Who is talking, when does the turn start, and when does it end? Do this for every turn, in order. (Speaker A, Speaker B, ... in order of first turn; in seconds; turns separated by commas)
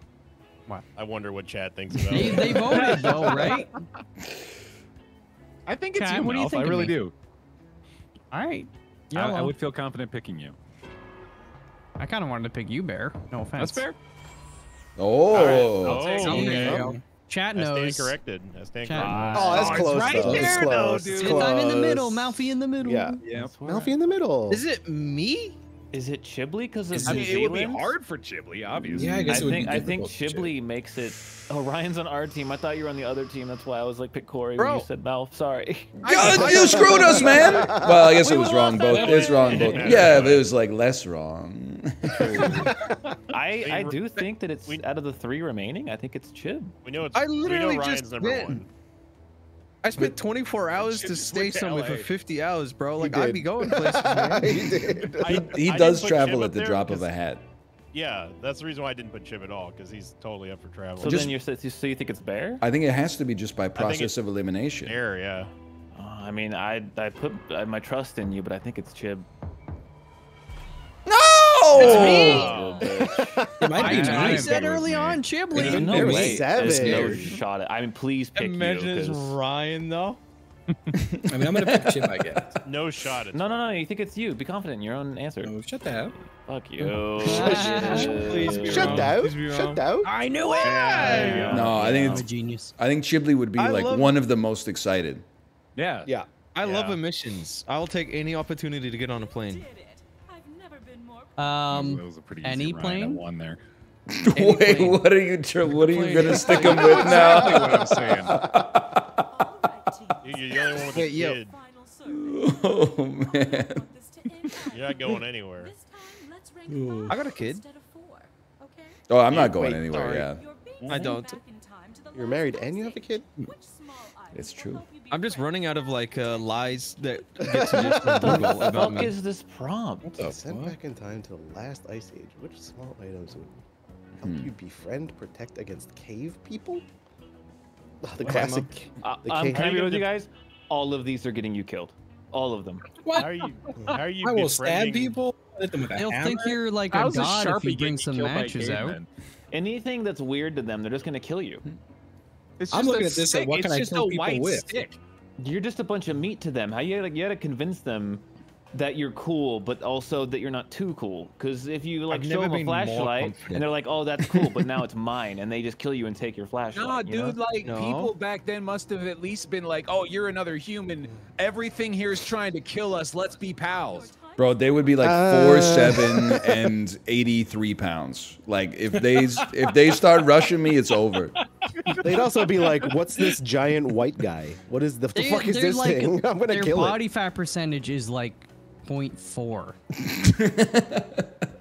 Speaker A: 0.9-3.0, Speaker B: 2.1-3.7, Speaker C: 2.1-3.8, Speaker C: 5.7-7.1, Speaker B: 5.9-6.9, Speaker B: 8.3-9.6, Speaker C: 9.1-10.6, Speaker B: 12.0-13.8, Speaker C: 13.6-13.9, Speaker D: 15.0-16.1, Speaker A: 15.3-16.8, Speaker C: 15.3-16.8, Speaker E: 16.2-17.0, Speaker F: 16.2-17.0, Speaker B: 16.2-18.2, Speaker A: 17.5-20.1, Speaker B: 18.8-20.0, Speaker C: 18.9-21.6, Speaker G: 19.3-24.6, Speaker E: 20.1-20.9, Speaker B: 21.1-23.2, Speaker C: 23.2-23.5, Speaker H: 23.3-23.9, Speaker F: 24.5-25.6, Speaker H: 25.9-27.9, Speaker E: 26.9-27.2, Speaker C: 27.0-29.6, Speaker D: 28.8-29.4, Speaker E: 28.9-30.5, Speaker H: 29.2-36.3, Speaker F: 34.6-34.9, Speaker D: 36.0-42.6, Speaker F: 36.1-37.4, Speaker G: 36.4-38.1, Speaker E: 36.9-37.8, Speaker I: 37.9-40.3, Speaker E: 38.8-40.1, Speaker A: 38.9-40.5, Speaker C: 40.0-40.4, Speaker H: 42.2-42.7, Speaker H: 43.3-46.7, Speaker A: 43.6-44.8, Speaker A: 46.8-48.7, Speaker F: 47.1-48.6, Speaker F: 49.8-54.7, Speaker C: 50.8-52.1, Speaker G: 53.0-55.5, Speaker D: 55.2-57.4, Speaker A: 55.2-57.1, Speaker A: 57.9-61.3, Speaker H: 61.0-62.6, Speaker D: 61.0-61.3, Speaker D: 62.6-65.0, Speaker A: 63.7-64.2, Speaker A: 64.8-65.5, Speaker H: 65.9-69.2, Speaker D: 71.0-72.5, Speaker H: 71.7-73.4, Speaker F: 71.8-72.6, Speaker A: 71.8-72.9, Speaker G: 73.0-73.9, Speaker E: 73.6-74.6, Speaker C: 73.8-75.2, Speaker B: 73.8-76.2, Speaker E: 75.5-77.3, Speaker H: 75.5-79.4, Speaker G: 75.7-77.3, Speaker F: 78.3-80.2, Speaker D: 80.9-82.5, Speaker E: 81.3-82.5, Speaker A: 82.6-83.7, Speaker H: 83.3-85.5, Speaker E: 85.4-86.1, Speaker H: 86.3-89.1, Speaker B: 87.2-88.5, Speaker E: 87.5-88.7, Speaker F: 87.6-91.6, Speaker G: 87.9-90.1, Speaker B: 90.0-92.7, Speaker C: 90.7-91.8, Speaker H: 91.0-92.3, Speaker D: 91.5-95.2, Speaker F: 93.5-94.2, Speaker C: 95.8-96.1, Speaker F: 96.5-99.7, Speaker I: 99.2-101.7, Speaker B: 101.4-103.2, Speaker C: 101.7-103.6, Speaker D: 104.1-109.2, Speaker B: 104.3-105.0, Speaker F: 105.7-107.4, Speaker C: 106.7-108.4, Speaker I: 109.3-119.0, Speaker A: 110.2-111.5, Speaker F: 110.9-111.4, Speaker D: 112.0-113.9, Speaker D: 114.4-115.1, Speaker A: 114.7-115.7, Speaker D: 116.7-117.2, Speaker F: 117.1-117.6, Speaker D: 119.1-120.4, Speaker G: 119.4-120.1, Speaker F: 119.8-120.3, Speaker I: 120.2-128.9, Speaker F: 120.8-121.4, Speaker G: 122.1-123.3, Speaker D: 124.3-124.9, Speaker F: 125.1-129.2, Speaker G: 127.4-128.6, Speaker H: 128.1-130.1, Speaker E: 130.0-130.8, Speaker G: 130.2-133.5, Speaker G: 134.2-136.8, Speaker D: 134.2-134.5, Speaker G: 138.0-140.0, Speaker F: 138.2-138.7, Speaker H: 139.0-142.9, Speaker E: 143.0-146.6, Speaker A: 143.1-145.2, Speaker B: 145.9-149.0, Speaker C: 146.9-149.1, Speaker H: 149.5-151.6, Speaker C: 152.6-154.9, Speaker E: 152.7-154.9, Speaker H: 155.4-167.4, Speaker F: 162.1-163.6, Speaker C: 166.7-174.1, Speaker F: 167.6-168.1, Speaker I: 172.6-176.1, Speaker D: 174.4-181.3, Speaker G: 175.0-176.5, Speaker E: 179.2-179.4, Speaker C: 181.8-182.7, Speaker G: 182.0-187.0, Speaker B: 185.1-189.8, Speaker D: 190.0-191.3